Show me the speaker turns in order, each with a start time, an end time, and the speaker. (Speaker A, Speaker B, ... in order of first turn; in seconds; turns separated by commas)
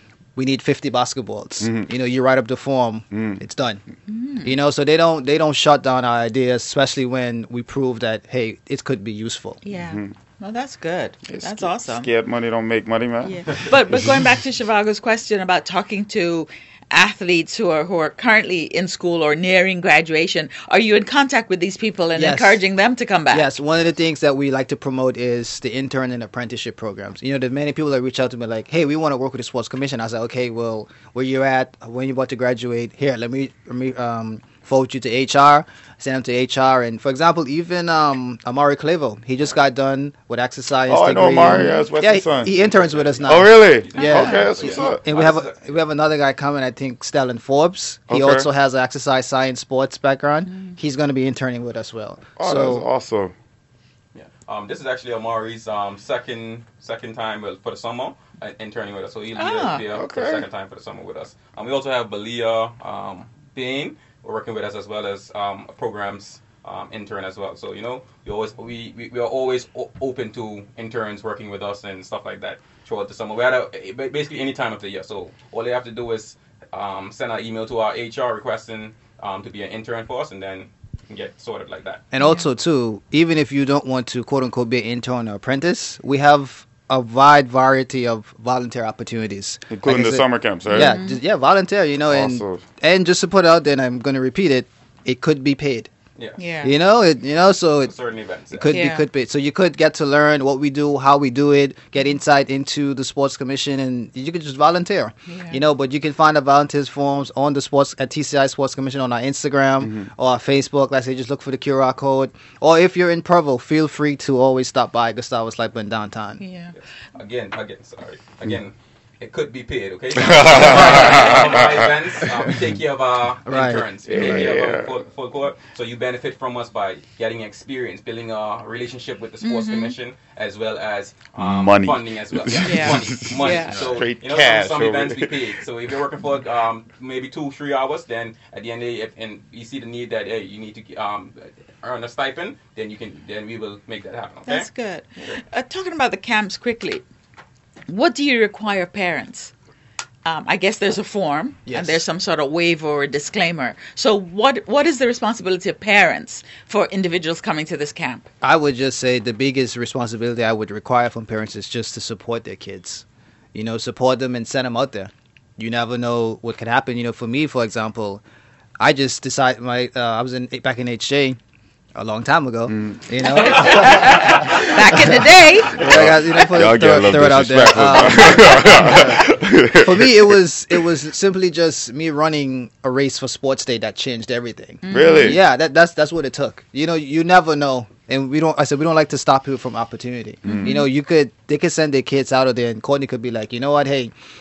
Speaker A: 0.4-3.8, Speaker B: 1.6-1.9, Speaker B: 3.1-3.4, Speaker C: 4.1-4.5, Speaker A: 4.4-9.6, Speaker C: 9.6-12.1, Speaker B: 9.8-10.1, Speaker B: 11.3-14.1, Speaker C: 13.2-23.5, Speaker A: 22.1-22.6, Speaker A: 23.3-52.9, Speaker B: 40.9-42.6, Speaker C: 41.5-41.8, Speaker D: 42.6-45.5, Speaker B: 43.3-45.0, Speaker C: 44.0-44.5, Speaker B: 48.1-48.5, Speaker B: 52.4-53.3, Speaker D: 54.1-82.0, Speaker C: 59.4-59.8, Speaker B: 59.9-60.5, Speaker A: 82.1-95.9, Speaker C: 82.2-82.5, Speaker B: 89.7-91.0, Speaker C: 90.7-91.2, Speaker B: 92.1-92.6, Speaker C: 96.4-96.7, Speaker A: 96.6-97.9, Speaker D: 97.8-98.8, Speaker A: 98.5-116.4, Speaker C: 98.7-99.1, Speaker C: 105.3-105.6, Speaker B: 109.8-110.1, Speaker C: 116.4-116.7, Speaker D: 117.2-145.4, Speaker B: 120.2-122.3, Speaker A: 120.7-121.1, Speaker A: 123.5-124.5, Speaker B: 124.1-125.0, Speaker C: 129.4-129.9, Speaker B: 131.4-135.4, Speaker C: 132.6-133.9, Speaker C: 144.5-147.0, Speaker C: 147.9-149.5, Speaker C: 150.2-158.3, Speaker A: 151.7-152.0, Speaker A: 158.4-168.2, Speaker A: 168.8-171.4, Speaker A: 171.9-179.3, Speaker B: 172.7-173.0, Speaker C: 173.2-175.8, Speaker B: 175.8-180.3, Speaker A: 179.8-194.1, Speaker C: 184.8-185.4, Speaker B: 184.9-185.4, Speaker B: 190.4-190.8, Speaker C: 190.6-190.9